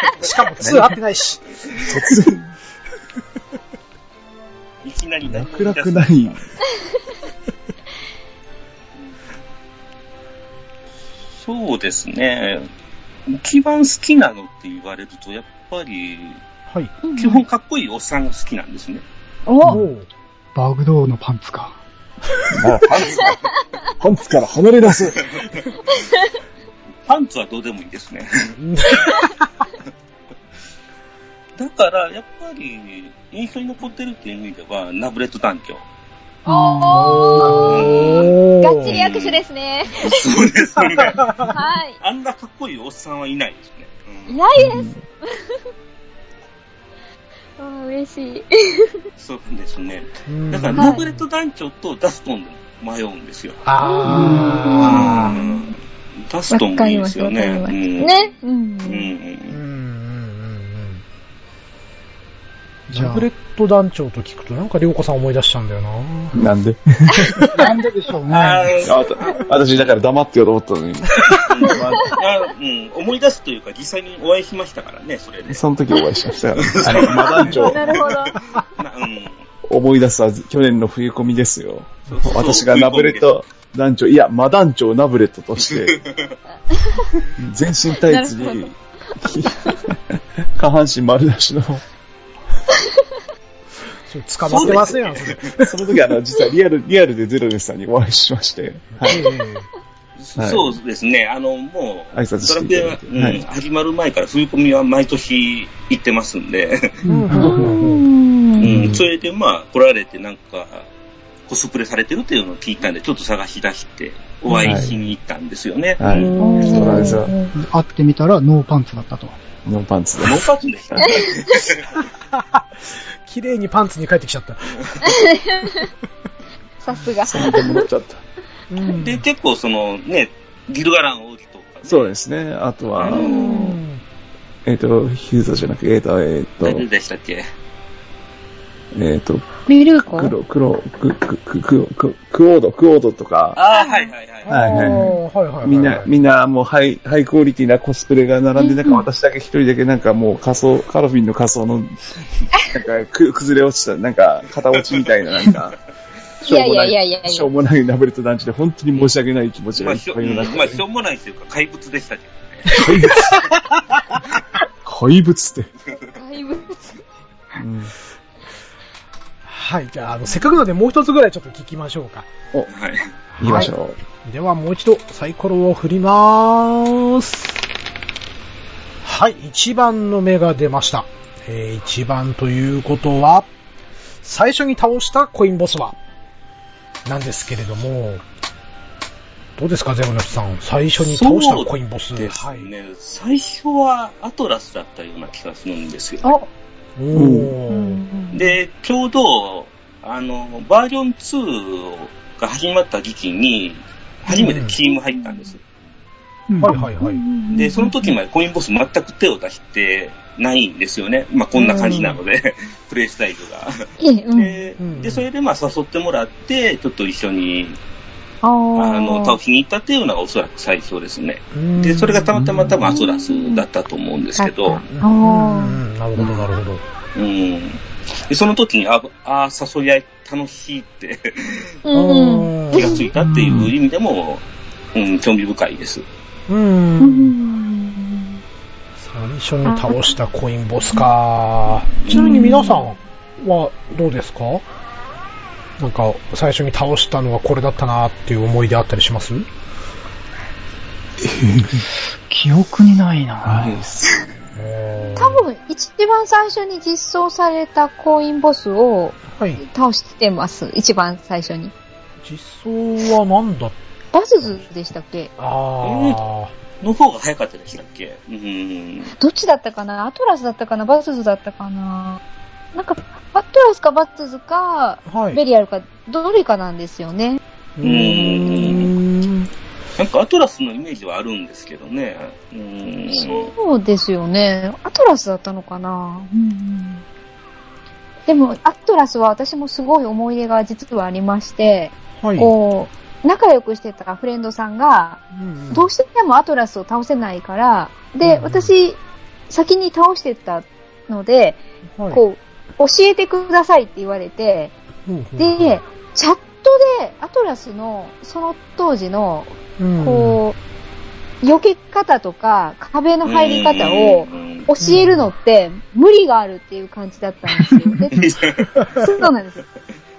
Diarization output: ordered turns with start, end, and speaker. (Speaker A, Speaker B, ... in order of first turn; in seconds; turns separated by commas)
Speaker A: 0.2-1.4, Speaker B: 0.6-0.9, Speaker B: 1.8-2.5, Speaker C: 4.8-6.5, Speaker B: 5.2-6.4, Speaker C: 11.3-12.7, Speaker C: 13.3-16.4, Speaker A: 16.7-16.9, Speaker D: 17.0-17.4, Speaker C: 17.2-19.0, Speaker D: 19.5-19.8, Speaker A: 19.6-20.1, Speaker E: 20.6-21.8, Speaker B: 22.5-23.4, Speaker C: 22.9-23.4, Speaker B: 24.0-25.5, Speaker C: 24.9-25.5, Speaker D: 25.9-26.2, Speaker C: 27.1-28.9, Speaker A: 28.6-29.5, Speaker C: 31.6-35.9, Speaker E: 36.5-37.9, Speaker D: 36.5-40.3, Speaker A: 36.9-39.0, Speaker C: 37.6-39.4, Speaker C: 40.0-44.4, Speaker A: 41.2-41.5, Speaker D: 41.5-42.0, Speaker D: 44.3-45.6, Speaker B: 44.5-45.0, Speaker D: 47.6-49.0, Speaker C: 49.2-53.6, Speaker A: 50.3-51.2, Speaker D: 50.8-51.0, Speaker A: 53.6-55.4, Speaker D: 53.8-55.7, Speaker E: 54.1-54.6, Speaker C: 54.7-58.3, Speaker D: 56.5-59.1, Speaker C: 58.8-59.6, Speaker A: 59.5-61.0, Speaker E: 62.9-63.3, Speaker A: 62.9-66.4, Speaker B: 66.3-67.5, Speaker E: 67.5-68.9, Speaker C: 68.3-70.0, Speaker B: 68.8-72.2, Speaker C: 71.3-75.6, Speaker B: 75.5-78.2, Speaker C: 76.6-79.5, Speaker D: 77.1-78.4, Speaker B: 79.7-86.0, Speaker C: 82.1-83.3, Speaker C: 85.6-86.4, Speaker D: 86.7-87.1, Speaker B: 87.4-91.8, Speaker D: 88.0-88.7, Speaker D: 92.7-93.0, Speaker A: 94.1-96.0, Speaker C: 94.5-95.4, Speaker B: 94.5-94.9, Speaker B: 95.6-99.3, Speaker A: 99.0-99.7, Speaker C: 100.2-107.0, Speaker B: 100.4-100.7, Speaker B: 102.1-103.4, Speaker E: 107.0-107.7, Speaker A: 107.1-108.1, Speaker D: 107.3-108.8, Speaker C: 108.6-110.9, Speaker B: 108.6-109.0, Speaker C: 111.5-117.0, Speaker B: 114.5-114.9, Speaker B: 116.0-117.3, Speaker D: 116.4-117.5, Speaker E: 117.5-119.4, Speaker B: 119.7-121.0, Speaker C: 120.2-122.0, Speaker D: 121.0-121.3, Speaker A: 122.3-122.7, Speaker A: 123.3-125.2, Speaker D: 125.0-125.9, Speaker D: 126.8-127.9, Speaker B: 127.2-128.2, Speaker A: 128.7-129.2, Speaker C: 128.9-132.1, Speaker B: 131.9-133.5, Speaker C: 133.0-133.7, Speaker D: 133.1-133.8, Speaker A: 133.3-134.0, Speaker B: 134.7-136.8, Speaker C: 136.6-137.5, Speaker B: 138.9-143.6, Speaker D: 139.7-140.3, Speaker C: 143.6-144.6, Speaker D: 143.7-144.1, Speaker A: 144.4-146.1, Speaker B: 144.5-145.1, Speaker B: 145.6-155.8, Speaker D: 148.6-149.1, Speaker C: 154.7-155.1, Speaker D: 156.4-157.5, Speaker B: 156.4-160.8, Speaker C: 159.7-163.4, Speaker B: 162.7-163.5, Speaker B: 164.8-165.7, Speaker D: 166.1-167.0, Speaker B: 167.6-167.9, Speaker A: 169.5-172.3, Speaker C: 172.7-173.1, Speaker A: 173.3-177.5, Speaker B: 173.4-174.0, Speaker A: 179.0-183.5, Speaker A: 184.2-186.0, Speaker A: 187.1-188.2, Speaker A: 189.6-192.7, Speaker C: 191.0-196.3, Speaker D: 196.2-196.5, Speaker A: 197.0-198.0, Speaker B: 197.1-197.6, Speaker D: 197.7-198.6, Speaker C: 198.3-205.6, Speaker A: 204.3-204.8, Speaker E: 206.5-206.8, Speaker A: 206.6-207.2, Speaker D: 207.0-208.1, Speaker C: 207.5-217.8, Speaker D: 211.6-212.2, Speaker D: 214.0-214.6, Speaker A: 214.8-215.3, Speaker D: 218.4-219.4, Speaker C: 218.8-224.8, Speaker A: 221.5-222.3, Speaker B: 222.3-222.8, Speaker D: 222.9-223.6, Speaker D: 224.4-225.8, Speaker A: 224.9-226.8, Speaker C: 227.2-231.8, Speaker D: 231.8-233.1, Speaker A: 231.9-233.1, Speaker C: 232.7-236.1, Speaker B: 233.2-233.7, Speaker A: 236.5-237.3, Speaker D: 237.0-238.4, Speaker A: 239.0-244.6, Speaker D: 239.7-240.2, Speaker C: 242.1-242.3, Speaker D: 242.1-242.9, Speaker A: 245.8-249.5, Speaker B: 251.2-251.8, Speaker E: 252.3-253.8, Speaker B: 253.4-254.3, Speaker A: 254.6-255.5, Speaker D: 255.2-261.7, Speaker A: 259.4-259.6, Speaker A: 262.2-263.8, Speaker D: 264.1-265.3, Speaker A: 265.4-266.5, Speaker C: 265.8-266.2, Speaker C: 266.8-269.1, Speaker D: 269.2-272.2, Speaker D: 272.7-277.4, Speaker A: 275.1-275.4, Speaker A: 277.8-279.5, Speaker C: 277.8-279.0, Speaker C: 280.0-283.5, Speaker D: 283.1-287.0, Speaker D: 288.3-299.0, Speaker A: 292.2-292.6, Speaker A: 295.3-295.9, Speaker A: 298.2-298.7, Speaker D: 299.5-301.6, Speaker D: 302.1-304.7, Speaker A: 305.1-305.8, Speaker D: 305.4-310.6, Speaker A: 309.8-310.4, Speaker D: 311.4-319.6, Speaker C: 313.2-314.7, Speaker A: 314.8-315.3, Speaker C: 318.1-319.1